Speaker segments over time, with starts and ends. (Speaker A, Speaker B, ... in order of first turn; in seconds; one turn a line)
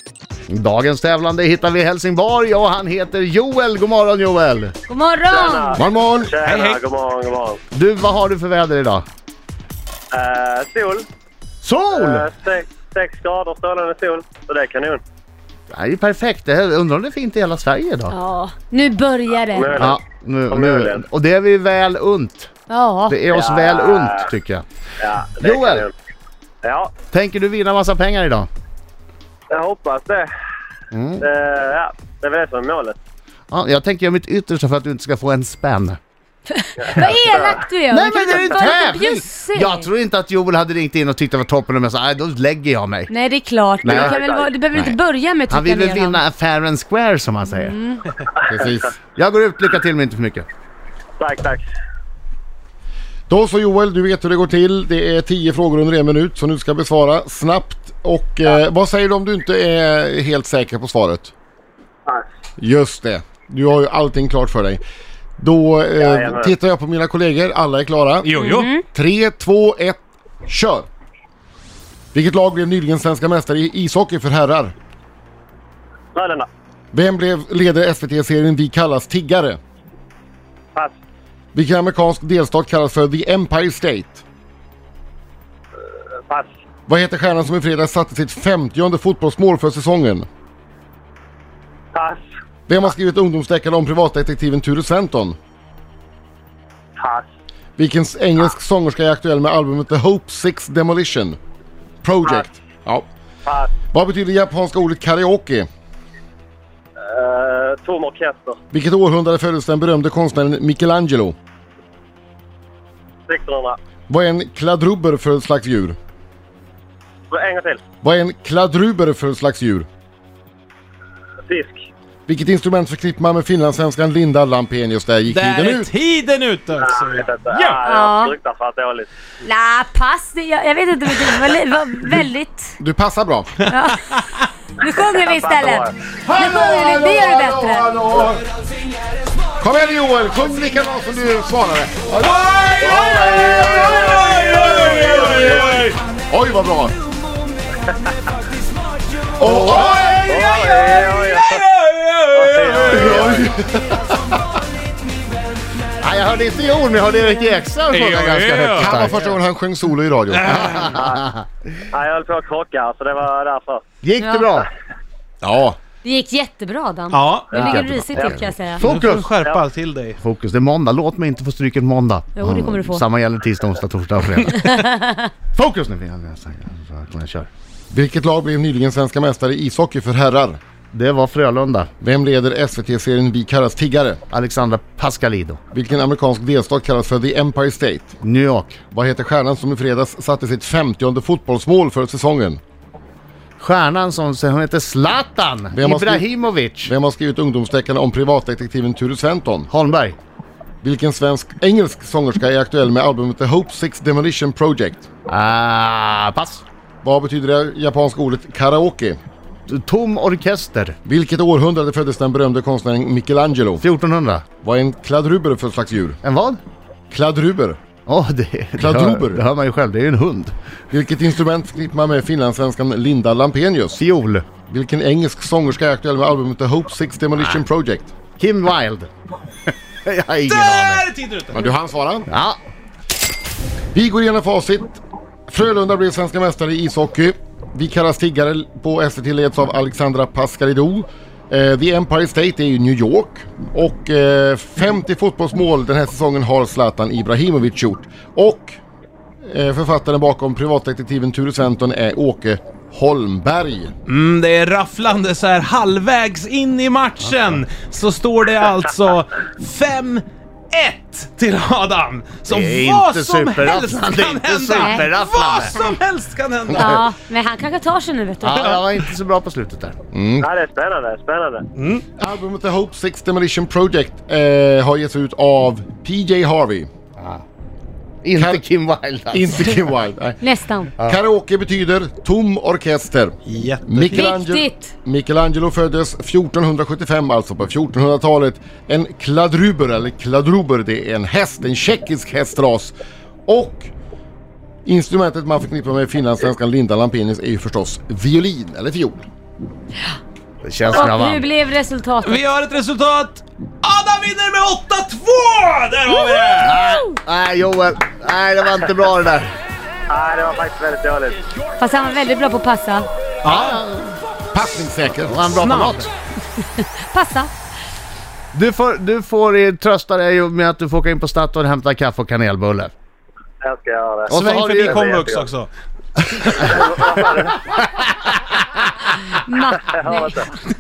Speaker A: 0.5-4.7
Speaker B: 4.9-5.8
Speaker C: 5.3-7.6
Speaker D: 5.8-6.3
Speaker E: 6.4-6.8
Speaker A: 7.7-9.1
Speaker C: 10.1-11.1
Speaker A: 11.6-12.3
Speaker C: 11.9-15.0
Speaker A: 15.7-18.2
Speaker B: 18.1-19.9
Speaker C: 19.5-21.0
Speaker A: 19.8-22.5
Speaker B: 22.7-23.2
Speaker A: 23.1-24.6
Speaker C: 23.3-24.3
Speaker C: 25.0-25.9
Speaker A: 25.4-25.9
Speaker C: 26.6-26.9
Speaker A: 27.1-28.5
Speaker C: 29.5-30.3
Speaker A: 30.9-31.2
Speaker C: 31.2-33.0
Speaker A: 33.5-36.0
Speaker B: 36.5-39.9
Speaker C: 36.8-37.6
Speaker A: 37.9-43.1
Speaker B: 43.1-46.2
Speaker A: 43.8-44.2
Speaker C: 43.8-44.5
Speaker A: 45.5-47.8
Speaker B: 47.5-48.0
Speaker D: 48.5-48.9
Speaker A: 49.2-50.5
Speaker C: 51.2-51.6
Speaker D: 53.3-61.3
Speaker D: 62.6-64.8
Speaker D: 65.4-70.9
Speaker C: 66.0-66.5
Speaker E: 68.2-68.7
Speaker B: 68.4-68.8
Speaker D: 72.1-74.7
Speaker C: 76.2-76.5
Speaker D: 76.9-79.6
Speaker D: 81.5-84.2
Speaker D: 86.9-90.3
Speaker C: 91.9-92.2
Speaker D: 92.7-95.4
Speaker C: 97.0-97.3
Speaker D: 97.8-101.4
Speaker D: 102.0-103.1
Speaker C: 103.5-103.7
Speaker D: 103.9-105.7
Speaker C: 107.0-108.6
Speaker D: 108.7-111.4
Speaker C: 113.3-113.8
Speaker D: 114.1-116.0
Speaker C: 117.3-117.8
Speaker D: 118.0-119.9
Speaker C: 121.5-121.9
Speaker D: 122.3-125.9
Speaker E: 125.3-127.8
Speaker C: 126.8-129.1
Speaker B: 127.9-128.3
Speaker B: 129.4-132.7
Speaker D: 132.8-133.6
Speaker B: 133.7-134.0
Speaker E: 134.1-134.4
Speaker B: 134.8-137.9
Speaker C: 134.9-135.9
Speaker D: 136.3-138.4
Speaker D: 139.6-142.2
Speaker E: 142.2-146.0
Speaker D: 142.8-147.0
Speaker C: 142.8-145.8
Speaker D: 149.4-150.2
Speaker A: 149.4-150.6
Speaker C: 150.3-151.6
Speaker E: 151.3-153.2
Speaker C: 152.3-153.5
Speaker D: 152.9-154.1
Speaker A: 156.0-159.4
Speaker E: 157.9-158.9
Speaker D: 158.8-160.8
Speaker E: 160.3-160.9
Speaker A: 160.5-161.4
Speaker C: 160.9-161.3
Speaker C: 161.9-163.8
Speaker A: 164.0-164.7
Speaker B: 164.2-164.6
Speaker D: 165.4-165.8
Speaker B: 166.0-168.8
Speaker E: 167.1-167.7
Speaker C: 167.5-168.5
Speaker A: 167.6-169.3
Speaker E: 168.8-170.2
Speaker A: 170.2-174.8
Speaker B: 172.4-173.0
Speaker B: 174.6-175.3
Speaker A: 175.5-177.5
Speaker D: 177.9-180.6
Speaker A: 180.9-181.9
Speaker D: 182.0-184.2
Speaker A: 184.3-185.6
Speaker D: 185.7-188.2
Speaker A: 188.2-188.8
Speaker D: 188.9-192.6
Speaker A: 193.6-196.9
Speaker D: 195.7-196.3
Speaker D: 196.8-199.7
Speaker A: 199.7-200.2
Speaker D: 200.8-205.1
Speaker A: 205.3-206.7
Speaker D: 207.0-209.2
Speaker A: 209.7-211.0
Speaker D: 211.1-213.8
Speaker A: 213.8-214.4
Speaker D: 214.6-216.2
Speaker A: 216.2-216.6
Speaker D: 217.1-217.8
Speaker A: 218.1-220.5
Speaker D: 218.8-219.4
Speaker D: 220.9-224.0
Speaker A: 224.0-224.5
Speaker D: 224.7-228.1
Speaker A: 227.4-227.6
Speaker A: 228.4-229.1
Speaker A: 229.7-231.1
Speaker E: 230.5-231.6
Speaker D: 231.5-232.3
Speaker A: 232.3-232.6
Speaker D: 233.9-248.8
Speaker D: 249.4-253.9
Speaker E: 254.1-267.0
Speaker A: 262.5-265.8
Speaker B: 266.8-268.6
Speaker A: 268.4-270.0
Speaker E: 268.6-268.8
Speaker D: 270.1-270.5
Speaker C: 270.4-271.7
Speaker E: 271.8-272.0
Speaker D: 272.2-276.9
Speaker A: 277.2-277.4
Speaker A: 278.2-279.8
Speaker D: 278.4-278.6
Speaker D: 279.3-280.4
Speaker B: 280.4-280.9
Speaker D: 281.0-292.9
Speaker E: 283.5-284.3
Speaker B: 284.1-284.9
Speaker D: 293.5-293.9
Speaker D: 294.9-299.3
Speaker A: 300.6-301.5
Speaker B: 300.9-302.4
Speaker E: 302.2-306.8
Speaker A: 306.6-309.5
Speaker C: 310.1-311.4
Speaker B: 311.8-313.1
Speaker E: 313.4-313.8
Speaker A: 313.5-314.2
Speaker D: 314.5-315.4
Speaker A: 315.2-316.1
Speaker E: 315.6-316.1
Speaker B: 316.8-317.5
Speaker A: 318.5-322.9
Speaker C: 323.6-325.5
Speaker A: 324.3-325.2
Speaker E: 324.3-325.7
Speaker A: 326.3-329.2
Speaker C: 326.5-327.6
Speaker B: 329.3-330.4
Speaker C: 329.8-330.5